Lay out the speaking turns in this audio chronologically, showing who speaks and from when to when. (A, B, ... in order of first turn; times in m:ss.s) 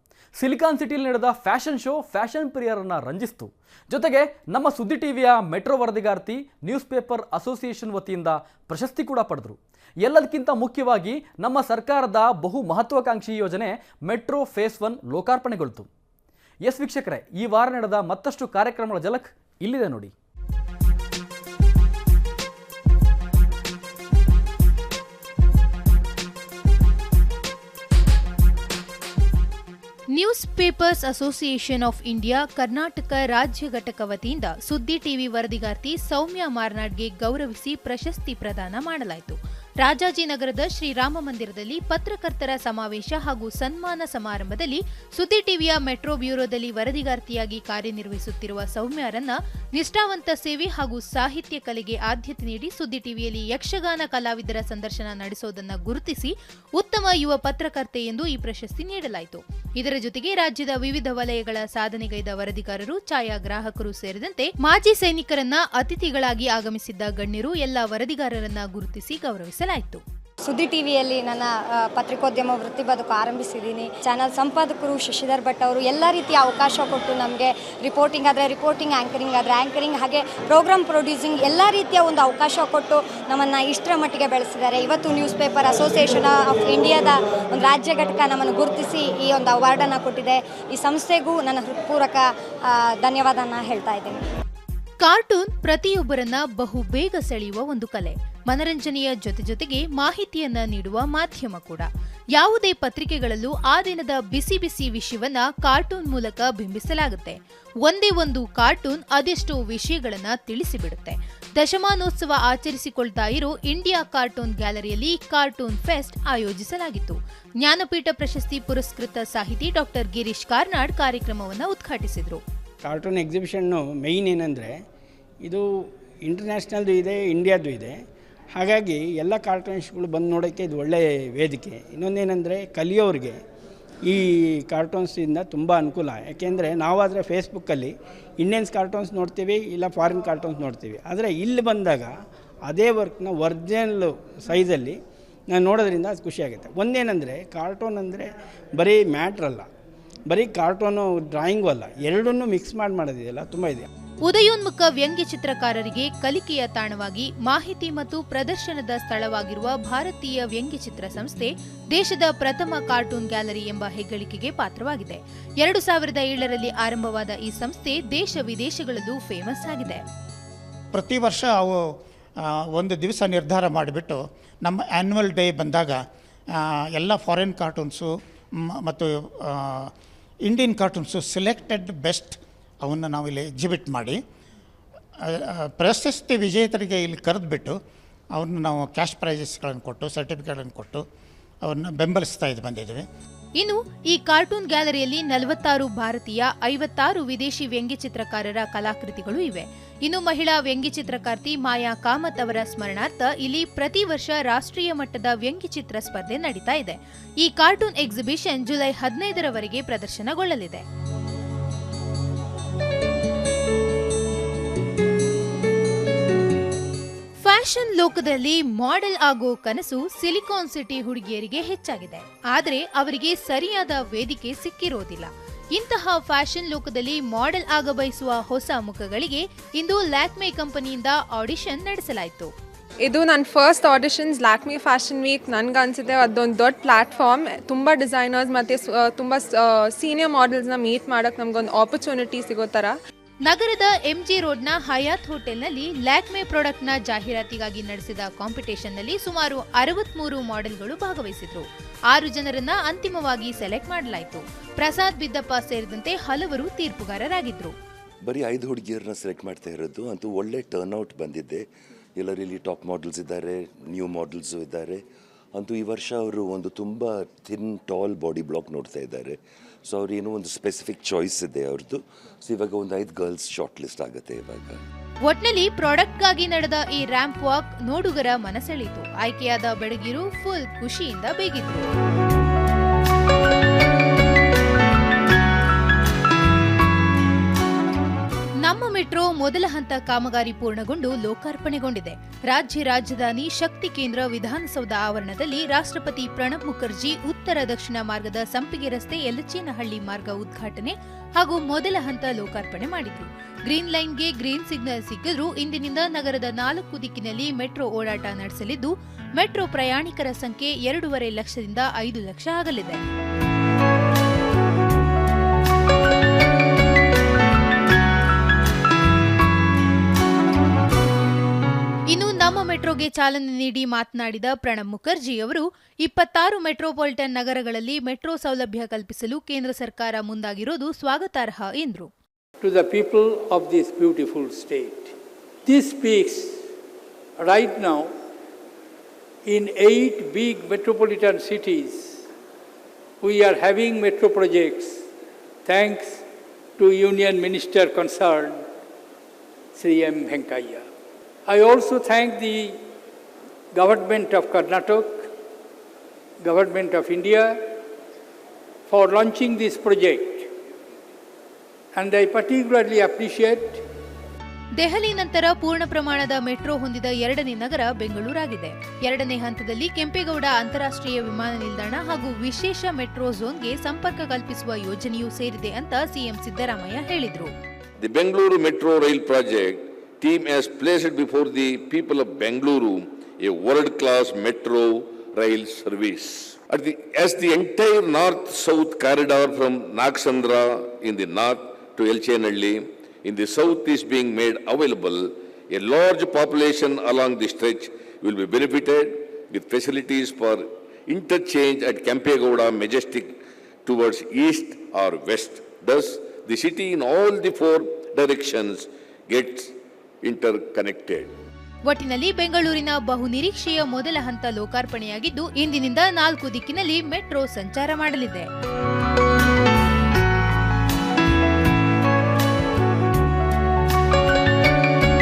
0:00.4-0:15.9 A
0:16.6-0:20.1 A
0:30.1-1:10.0 B
1:10.4-1:34.2 C
1:35.0-2:02.4 B
2:02.8-2:04.8 D
2:06.2-2:08.0 D
2:08.5-2:13.4 D
2:14.0-2:22.1 D
2:22.6-2:25.0 D
2:25.5-2:29.7 D
2:30.3-2:33.9 D
2:34.2-2:50.0 B
2:50.9-2:51.8 E
2:52.4-2:56.0 E
2:56.6-2:59.9 E
3:00.4-3:04.2 E
3:05.2-3:07.8 E
3:08.3-3:11.0 E
3:11.6-3:13.0 E
3:13.6-3:30.8 B
3:37.4-3:52.5 B
3:53.0-4:03.0 F
4:03.4-4:17.7 B
4:18.2-4:25.0 G
4:25.5-4:34.8 G
4:35.2-4:41.9 B
4:48.6-5:13.0 B
5:22.1-5:32.1 B
5:32.6-5:35.1 H
5:35.6-5:36.6 H
5:37.4-5:38.1 H
5:39.5-5:42.2 H
5:43.2-5:45.0 H
5:45.6-5:46.2 H
5:46.8-5:48.6 H
5:49.7-5:50.8 H
5:51.5-5:52.8 H
5:53.7-5:55.3 H
5:56.4-5:57.8 H
5:58.9-6:00.5 H
6:01.9-6:03.8 H
6:04.8-6:17.5 B
6:18.0-6:43.3 I
6:43.8-6:49.7 I
6:50.2-6:51.3 I
6:51.9-6:58.5 B